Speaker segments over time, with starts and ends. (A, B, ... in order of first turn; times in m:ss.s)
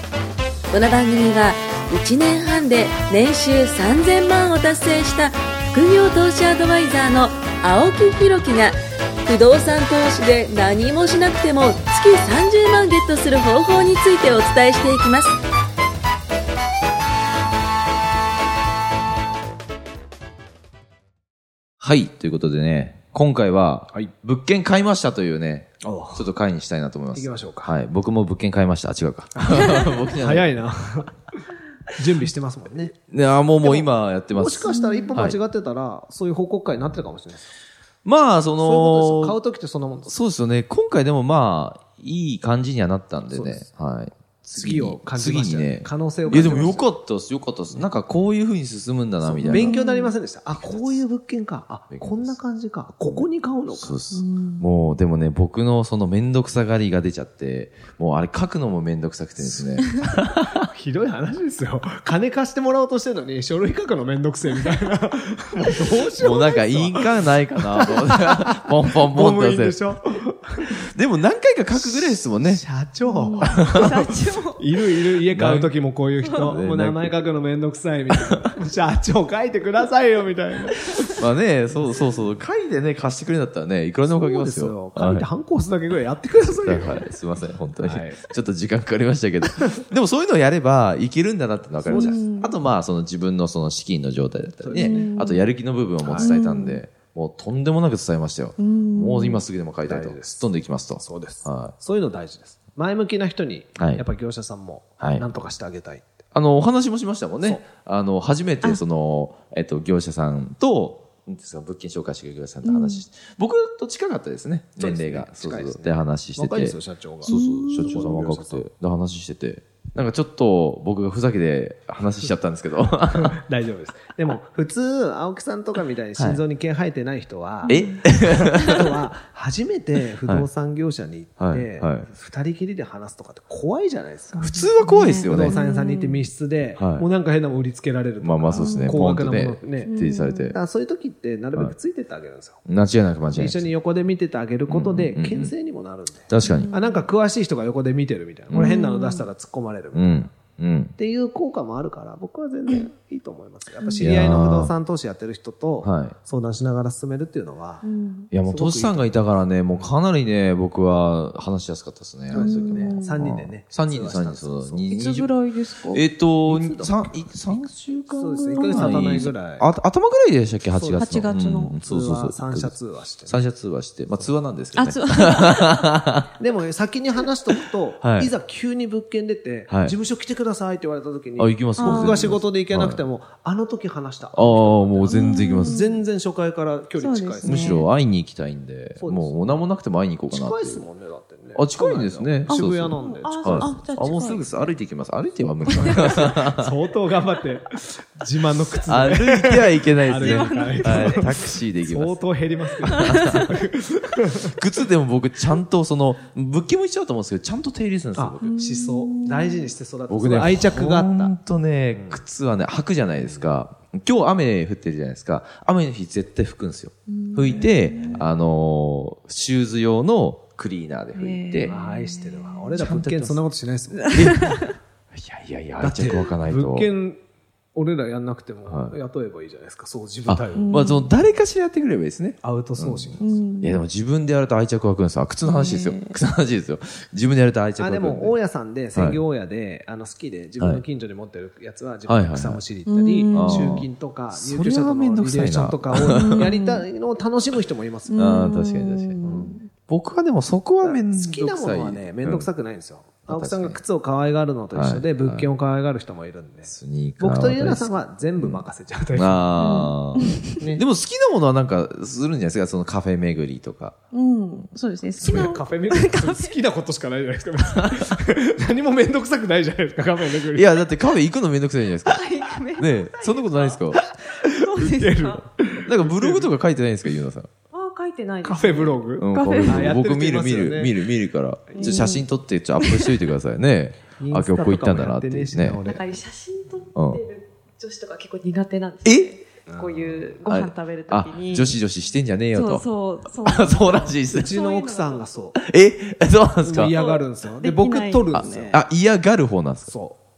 0:00.7-0:15.4 A
0:21.8-0:30.5 B
0:25.8-0:26.2 C
0:27.1-0:27.7 C
0:29.4-0:31.2 C
0:32.0-0:33.0 C
0:33.1-0:35.4 B
0:33.6-0:37.5 C
0:34.7-0:35.1 D
0:38.0-0:39.4 B
0:38.6-0:40.1 C
0:40.1-0:49.8 B
0:43.3-0:43.6 C
0:44.6-0:46.9 C
0:46.3-0:46.6 D
0:49.2-0:54.0 C
0:49.4-0:50.1 D
0:50.6-0:51.0 B
0:51.9-0:52.4 B
0:53.1-1:00.6 B
0:54.1-0:54.7 D
0:59.4-0:59.8 C
1:00.7-1:10.8 C
1:05.8-1:09.8 B
1:10.9-1:12.6 B
1:11.8-1:21.2 C
1:13.0-1:14.6 D
1:13.4-1:14.0 B
1:15.3-1:15.7 B
1:16.2-1:17.3 B
1:16.2-1:16.6 D
1:18.1-1:18.4 B
1:21.2-1:25.3 B
1:24.1-1:27.0 C
1:26.6-1:41.7 B
1:27.8-1:28.2 C
1:31.9-1:32.2 C
1:31.9-1:32.5 D
1:34.6-1:35.1 C
1:34.7-1:35.5 D
1:36.0-1:36.4 C
1:36.1-1:36.8 D
1:38.6-1:39.4 D
1:39.8-1:46.2 C
1:43.8-1:44.0 B
1:45.0-1:45.2 B
1:46.3-2:03.4 B
1:52.6-1:53.0 D
1:54.8-1:58.7 C
1:57.3-1:58.1 D
2:03.1-2:14.6 C
2:06.2-2:06.4 B
2:07.6-2:08.0 D
2:07.7-2:08.8 B
2:11.4-2:12.1 B
2:14.4-2:16.3 D
2:14.4-2:15.6 B
2:15.3-2:20.0 C
2:16.8-2:17.1 B
2:18.2-2:20.6 B
2:18.5-2:19.0 D
2:19.8-2:20.6 D
2:20.5-2:22.6 C
2:22.6-2:23.7 B
2:23.3-2:30.3 C
2:24.7-2:25.5 B
2:26.3-2:26.7 B
2:26.4-2:27.1 D
2:28.5-2:28.8 B
2:28.5-2:29.3 D
2:29.9-2:30.9 B
2:31.0-2:37.8 C
2:34.0-2:34.7 B
2:35.8-2:36.2 B
2:37.8-2:38.3 D
2:38.3-2:45.3 B
2:38.4-2:39.9 C
2:42.3-2:43.2 D
2:42.3-2:45.2 C
2:44.9-2:46.0 D
2:45.9-2:52.8 B
2:46.4-2:49.7 C
2:48.6-2:49.2 D
2:50.7-2:53.4 C
2:51.0-2:51.8 D
2:53.3-2:56.3 B
2:54.8-2:55.7 D
2:56.4-3:07.8 C
2:58.0-2:58.3 B
2:59.7-3:00.0 B
3:01.4-3:03.0 B
3:01.8-3:02.2 D
3:04.3-3:05.8 B
3:05.1-3:06.0 D
3:07.0-3:07.8 D
3:07.4-3:10.8 B
3:09.0-3:09.4 C
3:10.3-3:13.9 C
3:11.6-3:16.7 B
3:12.5-3:14.4 D
3:15.7-3:24.6 C
3:15.8-3:16.2 D
3:18.8-3:22.2 B
3:20.1-3:21.3 D
3:22.8-3:23.5 B
3:23.0-3:23.4 D
3:24.4-3:28.9 B
3:28.2-3:31.4 C
3:28.4-3:29.7 D
3:30.1-3:41.8 B
3:31.9-3:32.2 C
3:37.1-3:38.2 D
3:37.5-3:38.2 C
3:41.2-3:42.6 D
3:41.6-3:44.5 C
3:42.8-3:43.4 B
3:44.1-3:44.6 B
3:44.1-3:44.7 D
3:45.1-3:46.9 B
3:45.8-3:47.2 C
3:47.8-3:50.9 C
3:48.7-3:49.0 B
3:50.3-3:58.4 B
3:50.6-3:51.1 D
3:52.4-3:53.5 C
3:53.2-3:53.8 D
3:55.5-3:56.2 D
3:57.8-4:08.4 C
3:59.0-3:59.2 B
4:02.1-4:02.6 B
4:02.9-4:03.8 D
4:03.3-4:06.6 B
4:06.0-4:06.9 D
4:08.1-4:09.7 D
4:08.2-4:09.4 B
4:09.2-4:09.6 C
4:09.9-4:12.5 B
4:10.8-4:19.9 C
4:13.3-4:13.8 B
4:14.7-4:15.5 B
4:16.6-4:18.6 B
4:19.1-4:24.0 B
4:19.6-4:20.6 D
4:24.1-4:26.6 D
4:25.2-4:25.6 B
4:25.2-4:30.8 C
4:30.5-4:34.0 B
4:32.0-4:35.4 D
4:34.4-4:36.5 C
4:35.8-4:37.5 B
4:37.7-4:40.0 D
4:38.4-4:41.1 C
4:39.2-4:45.8 B
4:41.7-4:42.2 C
4:41.7-4:42.2 D
4:42.8-4:43.1 D
4:44.2-4:46.1 C
4:45.8-4:51.8 D
4:47.0-4:47.2 B
4:49.0-4:49.4 B
4:49.7-4:50.3 C
4:50.5-4:52.8 B
4:52.5-4:55.3 D
4:53.4-4:54.6 B
4:54.3-4:55.6 C
4:55.6-4:56.9 B
4:56.6-4:58.8 C
4:56.8-4:58.7 D
4:58.3-4:59.9 B
4:59.8-5:00.2 C